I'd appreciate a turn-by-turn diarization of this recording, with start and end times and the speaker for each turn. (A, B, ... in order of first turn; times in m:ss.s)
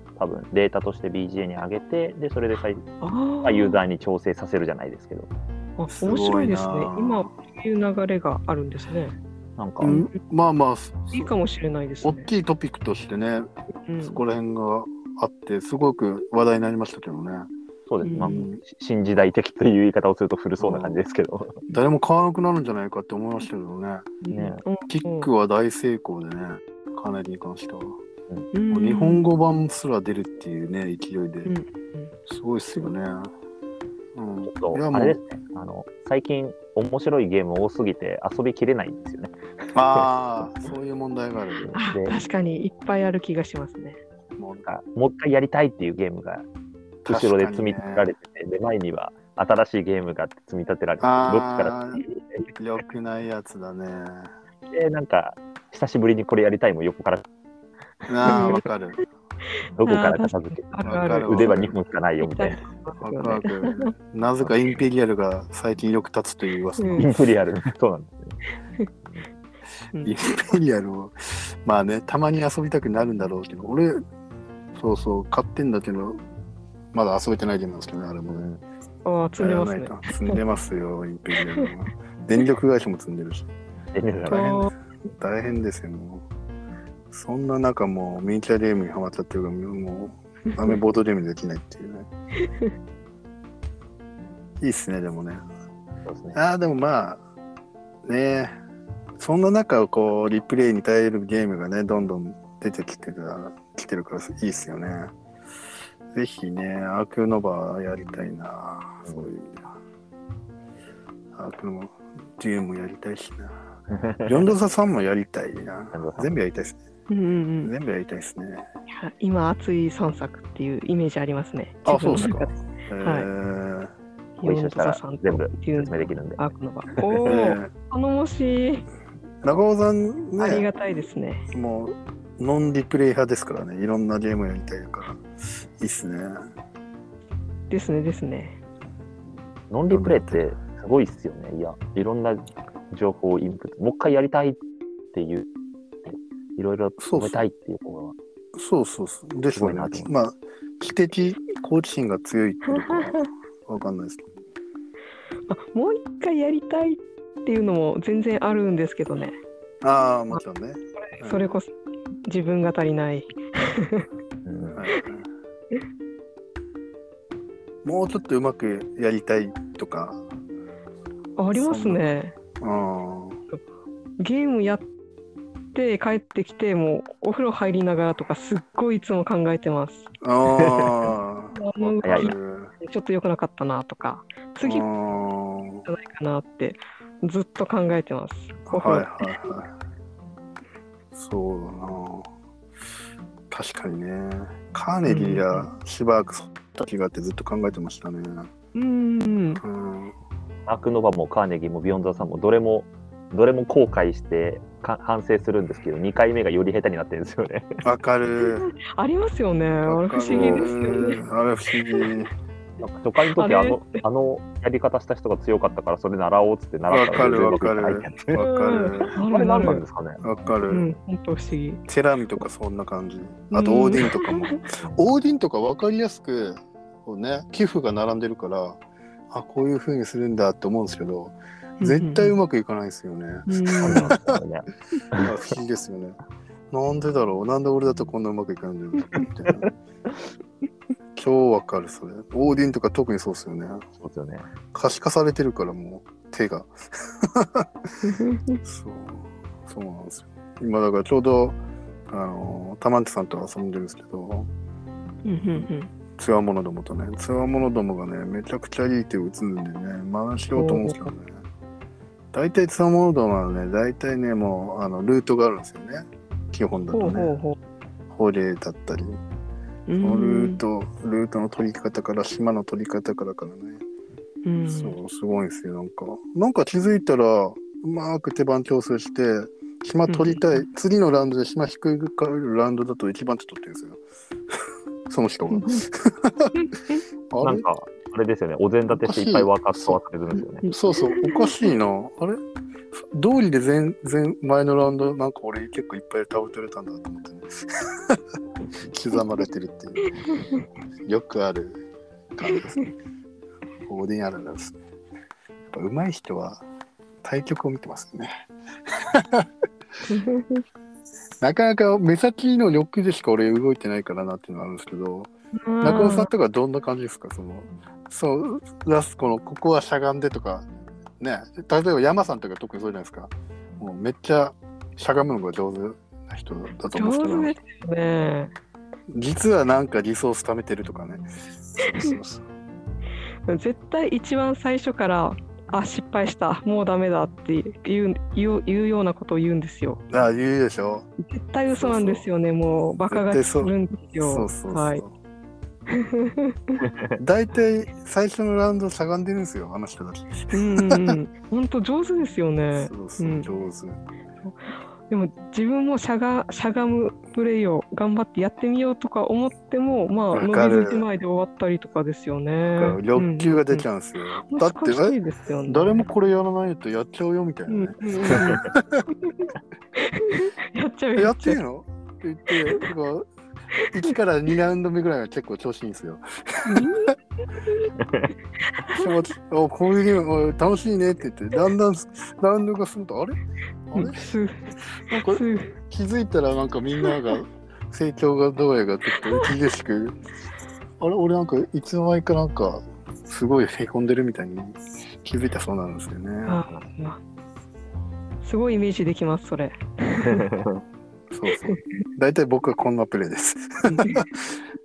0:00.2-0:02.9 A
0:03.0-0:03.8 B
0:03.4-0:05.3 A
0:05.8-0:09.2 B
0:05.9-0:07.3 C
0:09.6-0:10.0 A
0:09.8-0:11.3 C
0:09.8-0:10.1 B
0:11.1-0:12.3 B
0:12.0-0:13.5 C
0:13.9-0:14.2 B
0:14.0-0:17.5 C
0:17.9-0:21.6 A
0:18.0-0:18.5 B
0:18.2-0:18.6 C
0:20.6-0:21.0 C
0:21.7-0:24.2 C
0:24.2-0:25.3 B
0:24.3-0:24.6 A
0:24.9-0:28.0 C
0:28.5-0:29.3 B
0:28.7-0:31.5 C
0:31.4-0:32.1 B
0:32.2-0:33.3 C
0:34.1-0:35.2 C
0:34.4-0:39.4 A
0:39.7-0:41.7 C
0:41.6-0:42.2 A
0:41.7-0:44.0 B
0:44.4-0:44.6 C
0:44.6-0:46.4 A
0:47.0-0:48.1 C
0:47.0-0:52.5 A
0:51.0-0:52.0 C
0:52.6-0:54.3 C
0:54.7-0:57.2 A
0:58.1-0:59.0 C
0:58.2-0:58.6 B
0:58.2-0:58.6 A
0:59.8-1:02.6 A
0:59.8-1:01.6 B
1:00.8-1:01.8 C
1:02.2-1:03.9 B
1:03.0-1:07.2 C
1:06.8-1:07.1 B
1:07.0-1:08.4 A
1:10.0-1:14.0 C
1:14.7-1:16.2 C
1:16.9-1:18.5 C
1:18.3-1:18.6 A
1:19.0-1:20.4 B
1:19.4-1:23.5 C
1:23.9-1:24.4 A
1:24.2-1:26.2 C
1:24.3-1:24.7 B
1:27.1-1:32.1 C
1:32.4-1:32.7 B
1:34.6-1:35.4 C
1:36.0-1:36.4 A
1:36.3-1:37.2 C
1:38.0-1:38.5 C
1:39.2-1:45.1 C
1:46.1-1:49.7 C
1:51.3-1:53.5 C
1:53.9-1:54.5 A
1:54.2-1:56.8 C
1:55.9-1:56.4 A
1:57.1-1:57.7 B
1:57.6-1:58.6 C
1:58.9-2:03.3 B
2:01.8-2:03.9 C
2:04.4-2:08.9 B
2:04.4-2:06.4 A
2:07.0-2:07.3 A
2:07.2-2:07.7 C
2:09.4-2:10.7 C
2:10.4-2:11.4 B
2:11.5-2:16.4 C
2:17.7-2:18.6 B
2:19.7-2:24.6 A
2:19.9-2:20.4 C
2:25.1-2:25.5 A
2:26.0-2:28.1 A
2:27.0-2:27.4 C
2:28.5-2:34.3 C
2:29.5-2:30.1 A
2:32.7-2:33.2 B
2:35.5-2:39.3 B
2:39.8-2:41.6 C
2:41.0-2:41.7 B
2:42.2-2:44.1 B
2:44.4-2:44.8 A
2:44.7-2:45.3 C
2:47.8-2:50.2 C
2:51.4-2:52.3 B
2:51.5-2:52.0 C
2:52.6-2:53.4 C
2:54.2-2:54.8 B
2:55.7-3:00.1 B
3:00.2-3:02.7 C
3:00.5-3:00.9 A
3:01.5-3:04.9 B
3:02.0-3:02.3 A
3:04.6-3:05.8 C
3:05.8-3:09.3 B
3:08.7-3:09.7 C
3:11.1-3:12.3 C
3:13.5-3:18.5 C
3:15.0-3:15.7 B
3:18.7-3:19.6 B
3:19.6-3:20.2 C
3:20.7-3:27.8 A
3:27.8-3:28.7 C
3:28.4-3:31.2 B
3:29.8-3:32.3 C
3:30.3-3:30.7 A
3:32.8-3:38.4 A
3:33.4-3:34.0 B
3:36.9-3:39.2 C
3:38.3-3:39.8 B
3:39.2-3:40.6 A
3:40.2-3:40.9 C
3:40.7-3:41.8 B
3:41.9-3:54.4 C
3:43.5-3:44.6 B
3:51.8-3:52.4 B
3:53.5-3:54.1 B
3:53.8-3:55.3 A
3:55.2-3:56.2 C
3:56.7-3:59.7 C
4:01.1-4:03.8 C
4:04.0-4:04.5 A
4:04.7-4:07.7 C
4:08.0-4:08.6 B
4:08.6-4:14.5 C
4:15.2-4:15.9 B
4:16.2-4:21.4 C
4:20.6-4:21.1 B
4:22.3-4:27.3 C
4:26.9-4:27.6 B
4:28.1-4:29.2 C
4:29.9-4:30.6 B
4:30.0-4:33.8 C
4:34.4-4:35.0 B
4:34.7-4:44.0 C
4:40.1-4:40.6 B
4:45.1-4:46.5 C
4:45.6-4:45.8 B
4:47.3-4:47.6 C
4:47.4-4:50.7 A
4:49.0-4:50.0 C
4:50.6-4:51.6 B
4:50.7-4:52.4 C
4:52.9-4:58.2 C
4:58.8-5:00.2 C
5:00.2-5:00.6 B
5:01.0-5:01.8 C
5:02.4-5:02.9 C
5:03.9-5:04.8 C
5:05.7-5:06.6 C
5:07.2-5:08.3 C
5:08.9-5:09.5 C
5:10.1-5:10.6 B
5:11.4-5:20.7 C
5:15.6-5:16.3 B
5:21.2-5:27.6 C
5:26.9-5:28.5 B
5:29.1-5:32.4 C
5:31.8-5:32.2 B
5:33.5-5:40.0 B
5:40.1-5:41.1 C
5:41.2-5:45.0 B
5:41.7-5:42.3 C
5:43.1-5:45.1 C
5:45.9-5:46.8 B
5:46.8-5:47.2 A
5:47.2-5:51.2 C
5:50.5-5:53.5 B
5:52.7-5:54.0 C
5:54.4-6:03.8 B
6:00.3-6:01.0 C
6:02.7-6:09.0 C
6:04.5-6:06.1 B
6:07.7-6:08.7 B
6:09.2-6:11.6 B
6:11.2-6:13.3 C
6:13.9-6:17.1 C
6:16.6-6:17.9 B
6:18.0-6:18.3 A
6:18.6-6:19.2 B
6:18.8-6:23.4 C
6:23.9-6:24.2 C
6:23.9-6:25.7 B
6:25.0-6:30.2 C
6:27.0-6:27.4 B
6:29.2-6:29.5 B
6:31.0-6:36.6 C
6:36.4-6:37.2 B
6:38.4-6:40.5 B
6:40.2-6:40.8 A
6:41.3-6:44.6 C
6:43.9-6:44.2 B